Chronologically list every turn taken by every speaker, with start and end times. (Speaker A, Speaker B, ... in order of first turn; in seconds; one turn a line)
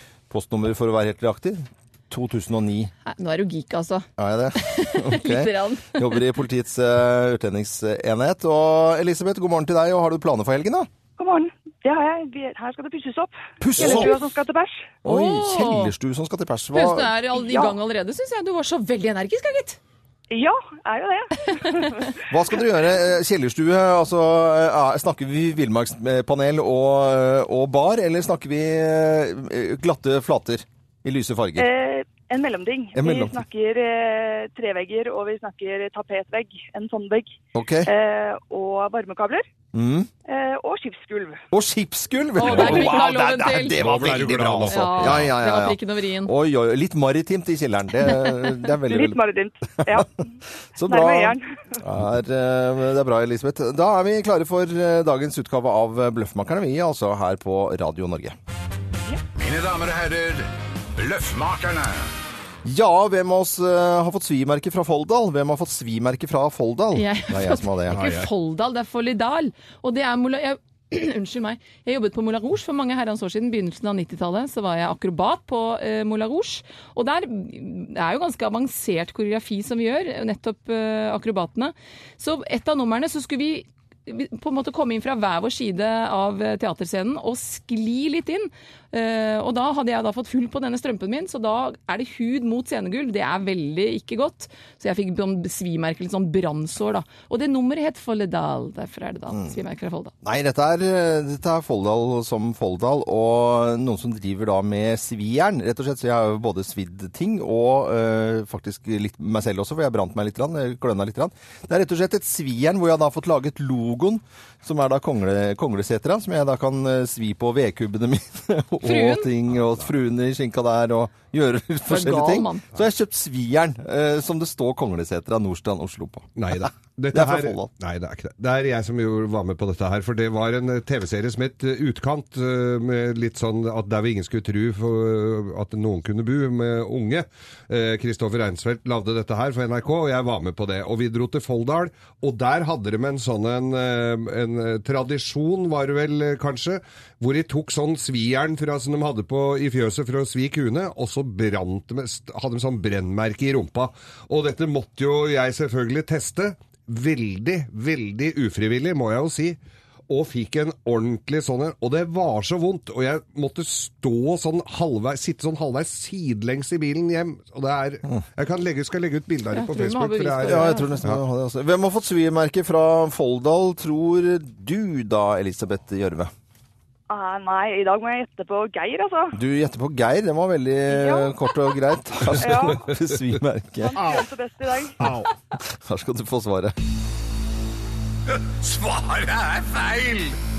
Speaker A: 0.3-2.9
Speaker B: 3.0-6.2
Speaker A: 4.2-10.9
Speaker C: 11.2-15.0
Speaker A: 13.6-14.2
Speaker B: 13.8-14.1
Speaker A: 15.0-17.1
Speaker B: 15.1-15.9
Speaker B: 16.7-19.8
Speaker C: 17.4-17.8
Speaker C: 20.3-22.1
Speaker A: 22.3-31.7
Speaker C: 31.6-39.5
Speaker A: 32.9-33.4
Speaker A: 37.5-37.9
Speaker A: 39.7-40.1
Speaker C: 40.3-41.4
Speaker A: 41.5-49.2
Speaker B: 42.4-43.8
Speaker D: 42.4-43.0
Speaker D: 43.7-45.3
Speaker B: 44.7-46.3
Speaker C: 48.8-50.3
Speaker A: 50.8-58.4
Speaker C: 50.8-51.5
Speaker E: 59.4-62.1
Speaker A: 62.6-68.0
Speaker B: 66.9-100.1
Speaker D: 67.9-68.3
Speaker A: 99.3-99.6
Speaker A: 100.2-126.3
Speaker B: 118.8-119.3
Speaker B: 121.9-122.6
Speaker D: 126.4-159.6
Speaker A: 127.1-127.7
Speaker D: 160.1-171.2
Speaker B: 169.5-171.0
Speaker A: 170.4-176.3
Speaker C: 177.1-179.4
Speaker A: 179.3-184.2
Speaker C: 180.9-181.7
Speaker C: 182.3-182.9
Speaker C: 183.8-185.1
Speaker D: 184.0-184.2
Speaker D: 185.0-185.3
Speaker A: 185.7-186.8
Speaker E: 188.6-190.4